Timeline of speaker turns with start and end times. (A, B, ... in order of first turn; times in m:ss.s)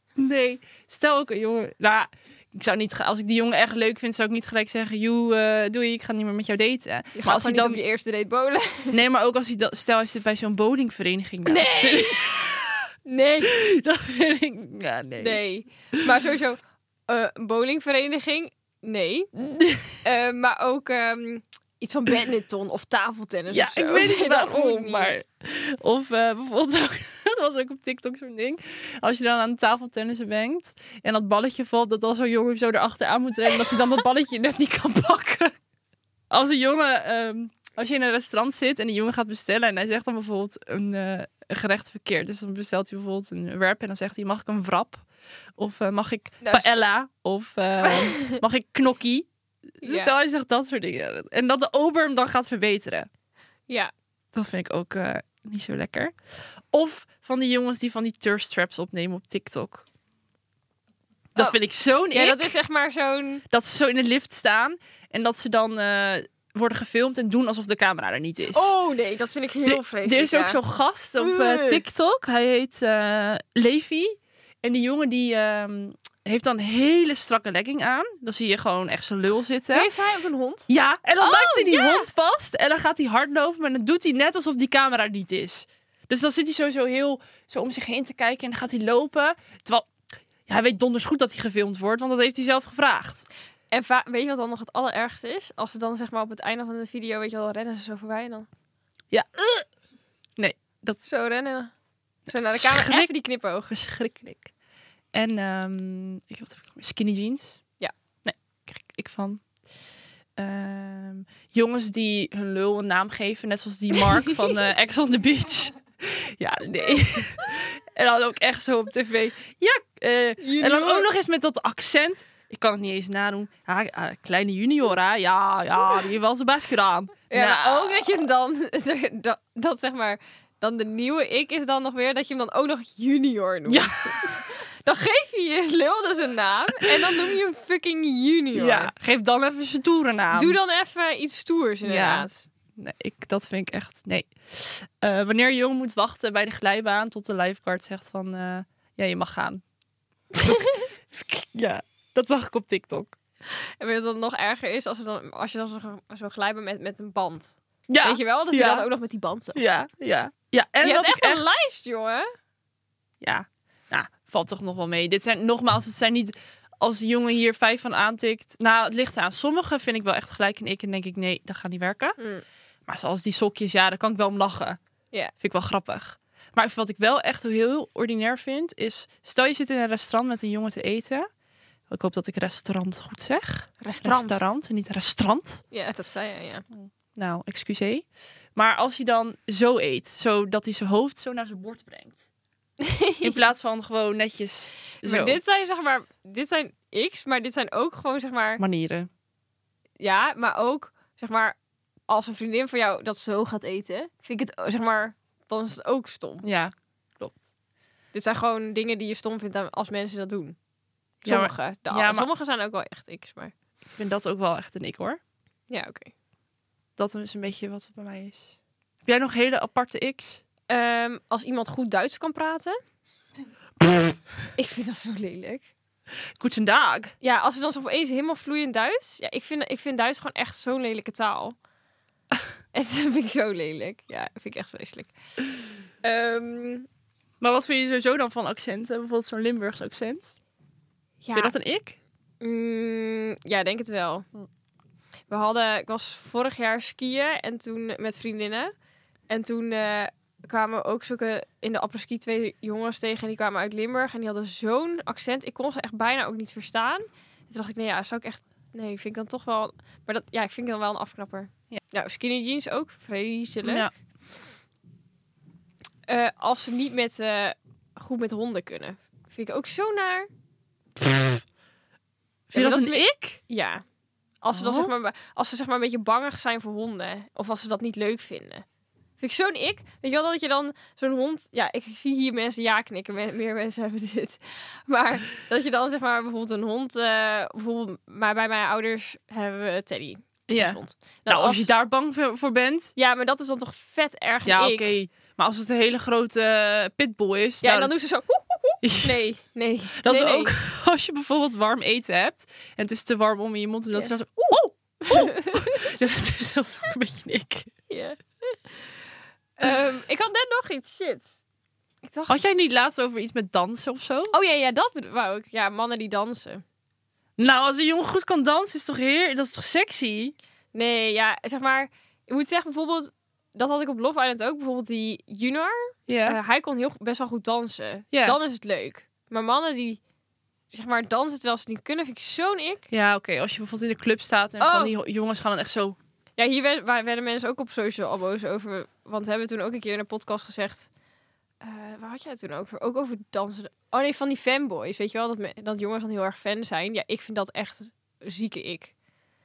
0:00.2-0:07.8 A
0:07.2-0:09.0 B
0:08.9-0:12.8 A
0:11.4-0:12.3 B
0:13.1-0:13.5 B
0:13.4-0:15.4 A
0:15.2-0:19.3 B
0:19.5-0:19.9 A
0:20.0-0:25.2 B
0:23.5-0:35.6 A
0:36.3-0:45.0 A
0:45.6-0:49.3 A
0:46.4-0:46.7 B
0:47.8-0:48.4 B
0:49.8-0:53.1 A
0:49.8-0:50.1 B
0:54.3-0:56.1 A
0:56.7-0:59.8 A
1:01.4-1:02.6 A
1:02.1-1:03.4 B
1:03.5-1:08.8 A
1:08.5-1:10.6 B
1:09.6-1:19.9 A
1:11.2-1:11.8 B
1:19.7-1:20.7 B
1:20.7-1:29.9 A
1:21.2-1:22.1 B
1:30.5-1:33.3 A
1:33.7-1:38.5 B
1:39.1-1:39.7 A
1:40.4-1:41.0 A
1:41.1-1:41.7 B
1:42.3-1:43.7 B
1:42.3-1:43.1 A
1:43.7-1:44.5 A
1:45.1-1:47.6 A
1:48.2-1:49.4 A
1:50.4-2:08.1 A
1:54.0-1:54.6 B
2:00.4-2:01.1 B
2:07.3-2:18.9 B
2:13.7-2:14.5 A
2:18.5-2:20.6 A
2:20.3-2:22.4 B
2:21.8-2:29.6 A
2:30.4-2:30.9 B
2:30.4-2:33.2 A
2:33.5-2:39.6 B
2:37.9-2:38.9 A
2:39.6-2:41.6 A
2:40.8-2:42.3 B
2:43.2-2:52.2 A
2:52.2-2:52.4 B
2:52.9-2:54.8 A
2:55.4-3:01.3 A
3:01.9-3:05.6 A
3:03.8-3:04.4 B
3:05.7-3:06.6 B
3:06.7-3:12.2 A
3:12.8-3:13.4 B
3:13.2-3:15.4 A
3:15.0-3:18.6 B
3:18.6-3:19.1 A
3:20.0-3:21.6 B
3:22.1-3:26.4 B
3:26.4-3:27.5 A
3:28.1-3:30.6 B
3:31.2-3:32.3 A
3:31.2-3:33.5 B
3:34.0-3:35.2 A
3:35.7-3:36.1 B
3:37.0-3:38.5 A
3:39.0-3:40.4 A
3:40.7-3:42.8 B
3:44.6-3:45.7 B
3:46.4-3:47.1 A
3:47.2-3:51.6 B
3:52.7-3:55.1 B
3:56.0-3:56.9 B
3:57.4-4:00.4 A
4:01.2-4:01.6 B
4:01.3-4:02.0 A
4:02.4-4:04.3 B
4:05.3-4:08.7 B
4:09.3-4:23.9 B
4:23.6-4:23.9 A
4:26.1-4:30.3 B
4:31.0-4:31.4 A
4:32.5-4:33.4 A
4:32.5-4:33.8 B
4:34.4-4:38.6 B
4:34.5-4:34.9 A
4:39.2-4:51.7 B
4:50.5-4:52.9 A
4:53.0-4:54.9 B
4:54.5-4:57.9 A
4:57.6-5:00.6 B
4:58.8-4:59.2 A
5:00.0-5:07.7 A
5:05.1-5:05.9 B
5:07.9-5:08.9 B
5:09.6-5:11.4 B
5:12.0-5:12.4 B
5:12.3-5:14.4 A
5:14.3-5:16.6 B
5:17.4-5:20.3 A
5:20.7-5:30.0 B
5:26.1-5:26.4 A
5:28.1-5:28.4 A
5:30.7-5:32.9 B
5:32.9-5:36.0 A
5:34.6-5:34.9 B
5:36.4-5:40.9 B
5:41.6-5:48.9 B